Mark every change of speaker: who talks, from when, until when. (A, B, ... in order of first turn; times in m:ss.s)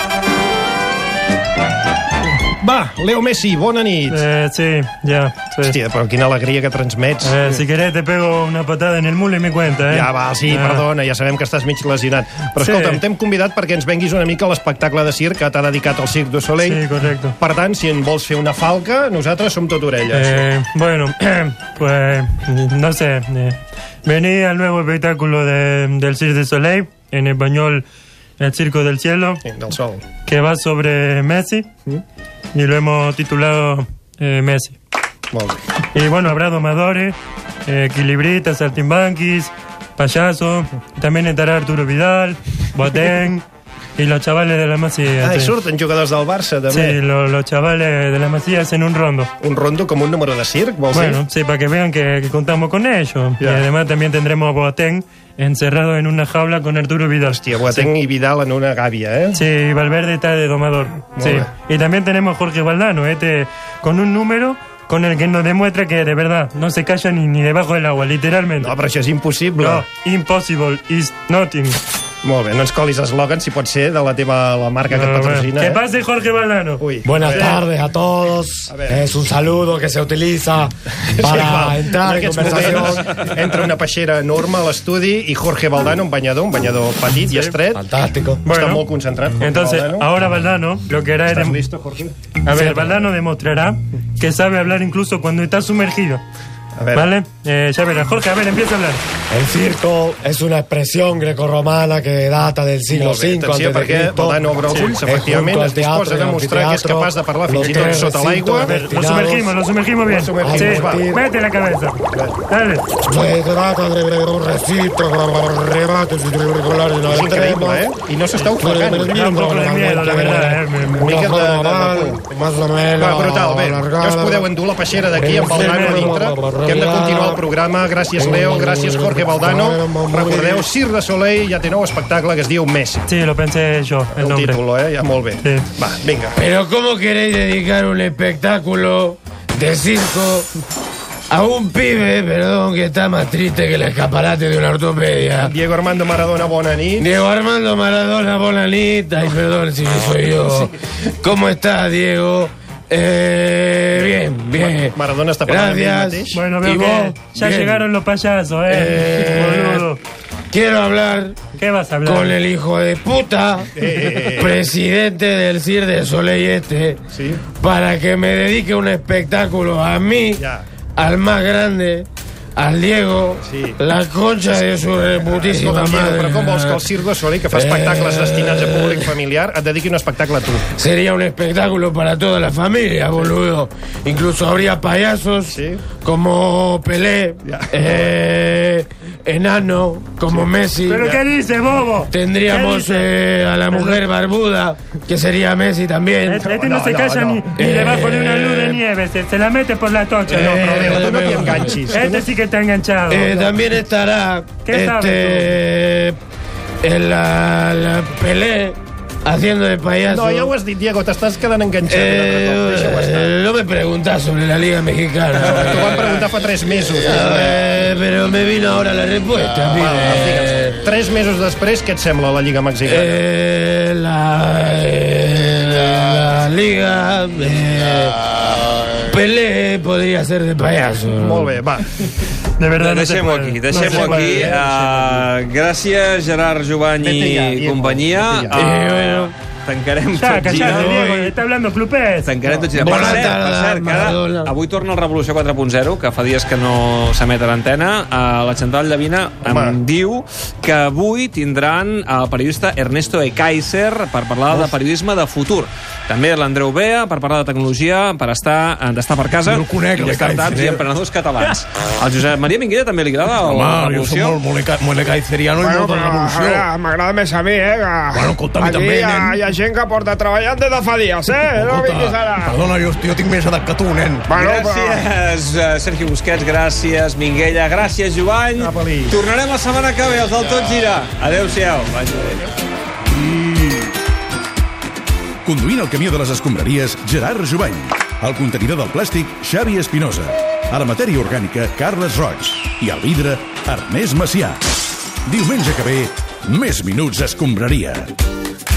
0:02.6-0:04.2 A
0:04.1-0:05.8 B
0:05.6-0:07.6 A
0:07.2-0:10.9 B
0:09.9-0:16.9 A
0:12.6-0:13.0 B
0:16.6-0:17.4 B
0:17.4-0:20.5 A
0:20.1-0:27.8 B
0:28.4-0:29.4 B
0:29.4-0:30.0 A
0:30.2-0:31.7 B
0:32.5-0:34.8 B
0:35.3-0:35.6 A
0:35.9-0:37.2 B
0:37.7-0:43.4 B
0:44.0-0:45.6 B
0:45.2-0:47.0 A
0:46.7-0:49.3 B
0:49.4-0:51.2 A
0:50.9-0:57.9 B
0:53.4-0:53.7 A
0:57.3-0:59.4 A
0:59.3-1:08.8 B
1:01.2-1:01.5 A
1:08.6-1:09.9 A
1:09.6-1:11.8 B
1:12.2-1:15.8 A
1:14.9-1:17.6 B
1:16.8-1:17.6 A
1:17.0-1:23.1 C
1:18.7-1:19.0 A
1:21.2-1:27.8 A
1:22.4-1:22.8 D
1:27.2-1:27.6 B
1:27.9-1:28.4 C
1:28.4-1:30.1 A
1:28.4-1:28.8 B
1:29.4-1:31.6 B
1:31.3-1:32.1 A
1:32.4-1:36.2 B
1:36.8-1:37.1 A
1:36.9-1:39.0 B
1:39.3-1:44.4 C
1:42.9-1:48.8 A
1:44.7-1:45.0 B
1:45.0-1:49.6 C
1:48.6-1:52.9 B
1:50.0-1:51.1 A
1:50.4-1:51.2 C
1:52.1-1:52.4 A
1:53.1-1:57.8 C
1:57.0-1:59.3 A
1:58.6-2:04.5 C
1:59.1-2:01.0 B
2:00.9-2:02.2 A
2:03.0-2:13.1 A
2:05.2-2:07.4 C
2:05.5-2:06.4 B
2:08.2-2:10.7 C
2:13.1-2:14.6 B
2:14.1-2:16.4 A
2:15.4-2:15.7 B
2:16.3-2:20.5 D
2:21.3-2:25.5 D
2:25.4-2:27.1 A
2:27.0-2:30.7 D
2:31.2-2:37.9 D
2:34.6-2:36.4 A
2:36.3-2:40.0 B
2:38.6-2:39.9 D
2:40.5-2:47.0 D
2:41.6-2:42.4 B
2:43.7-2:44.6 A
2:47.1-2:47.4 A
2:47.6-2:50.4 D
2:50.4-2:50.7 A
2:51.0-2:56.8 D
2:53.4-2:53.8 A
2:55.1-3:00.6 A
2:57.5-2:59.1 D
3:00.8-3:11.2 D
3:05.5-3:05.8 A
3:07.4-3:08.2 A
3:10.3-3:11.2 A
3:10.9-3:13.1 B
3:12.1-3:16.4 D
3:13.7-3:14.0 B
3:16.3-3:21.1 B
3:16.4-3:17.6 A
3:17.6-3:18.8 D
3:20.3-3:22.3 A
3:20.3-3:22.0 D
3:21.9-3:23.4 B
3:23.1-3:26.2 D
3:24.7-3:25.5 B
3:26.8-3:30.5 D
3:30.1-3:33.4 A
3:31.8-3:35.9 D
3:35.4-3:37.8 A
3:36.9-3:40.8 D
3:39.7-3:43.2 A
3:42.8-3:48.2 D
3:49.0-3:51.6 D
3:51.2-3:51.8 A
3:52.6-3:54.5 B
3:52.8-4:01.1 E
3:53.7-3:55.3 A
3:57.0-3:58.7 A
3:58.5-3:59.3 D
4:00.1-4:02.4 B
4:00.5-4:01.4 D
4:02.2-4:24.4 E
4:02.4-4:03.1 A
4:02.8-4:04.5 D
4:09.4-4:09.8 A
4:19.4-4:20.9 F
4:23.4-4:26.7 F
4:25.6-4:32.6 G
4:28.1-4:29.4 F
4:31.3-4:34.3 F
4:34.3-4:35.1 G
4:34.3-4:42.4 E
4:38.6-4:39.2 A
4:45.5-4:54.6 H
4:55.3-4:58.1 H